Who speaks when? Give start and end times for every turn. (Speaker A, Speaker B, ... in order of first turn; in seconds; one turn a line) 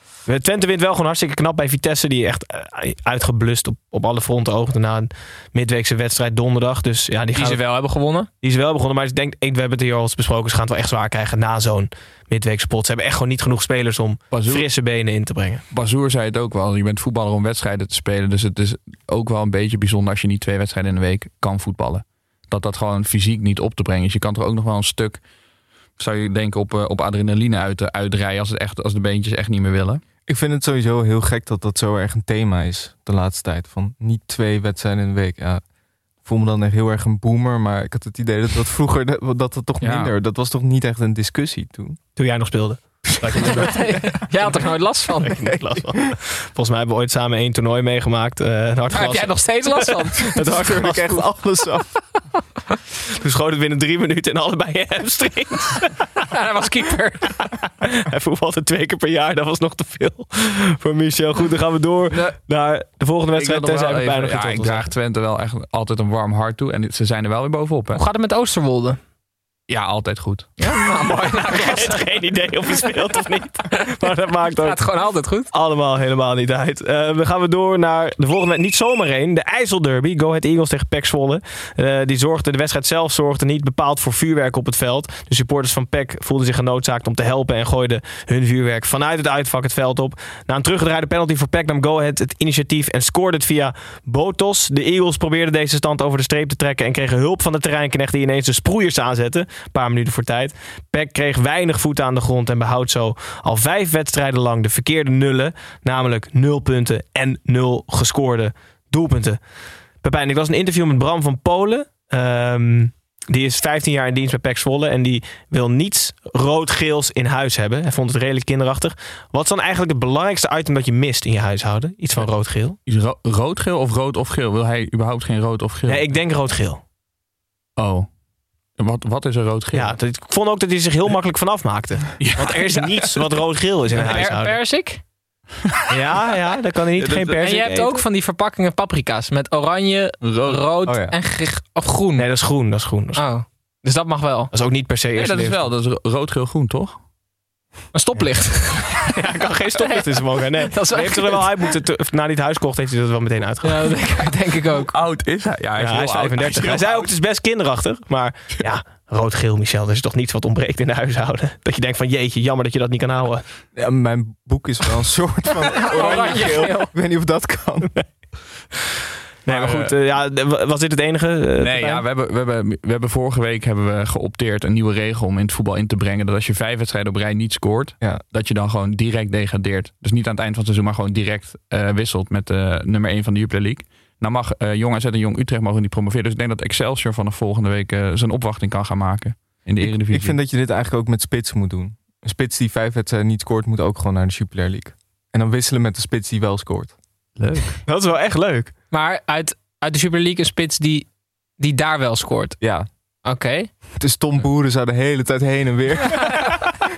Speaker A: 0.2-7.6
Speaker B: 7.3-8.3
Speaker A: 8.4-15.6
Speaker C: 14.3-14.7
Speaker C: 15.7-25.2
Speaker C: 26.0-30.0
Speaker D: 30.3-35.6
Speaker D: 36.2-42.0
Speaker C: 39.8-40.1
Speaker A: 42.2-44.5
Speaker B: 43.5-45.3
Speaker A: 45.2-51.2
Speaker D: 45.3-45.8
Speaker B: 48.9-50.4
Speaker D: 50.4-52.0
Speaker A: 53.2-56.0
Speaker B: 56.3-57.4
Speaker A: 57.5-64.9
Speaker C: 62.1-62.4
Speaker C: 63.4-68.0
Speaker B: 67.9-69.0
Speaker C: 69.7-70.6
Speaker B: 70.6-72.0
Speaker A: 71.4-74.9
Speaker B: 74.6-75.5
Speaker A: 75.5-109.4
Speaker A: 110.0-122.8
Speaker C: 122.9-126.1
Speaker A: 125.9-126.8
Speaker C: 127.8-128.1
Speaker C: 128.8-129.9
Speaker A: 129.7-134.6
Speaker C: 132.2-133.1
Speaker B: 133.9-135.0
Speaker A: 135.9-138.0
Speaker C: 137.0-137.4
Speaker B: 137.4-142.2
Speaker C: 140.2-140.7
Speaker D: 140.9-141.1
Speaker A: 142.2-143.2
Speaker B: 143.2-144.5
Speaker A: 144.5-145.6
Speaker C: 145.1-147.0
Speaker B: 147.9-149.1
Speaker A: 149.1-154.0
Speaker B: 149.8-150.0
Speaker B: 150.7-151.5
Speaker B: 153.6-154.9
Speaker C: 154.8-157.1
Speaker A: 155.8-163.4
Speaker D: 163.8-167.9
Speaker B: 165.8-166.9
Speaker A: 169.4-172.0
Speaker C: 169.5-169.9
Speaker C: 171.6-190.4
Speaker D: 189.8-196.9
Speaker C: 197.4-197.8
Speaker A: 197.9-198.7
Speaker B: 198.9-202.6
Speaker D: 202.6-202.9
Speaker B: 203.2-203.7
Speaker D: 204.0-206.7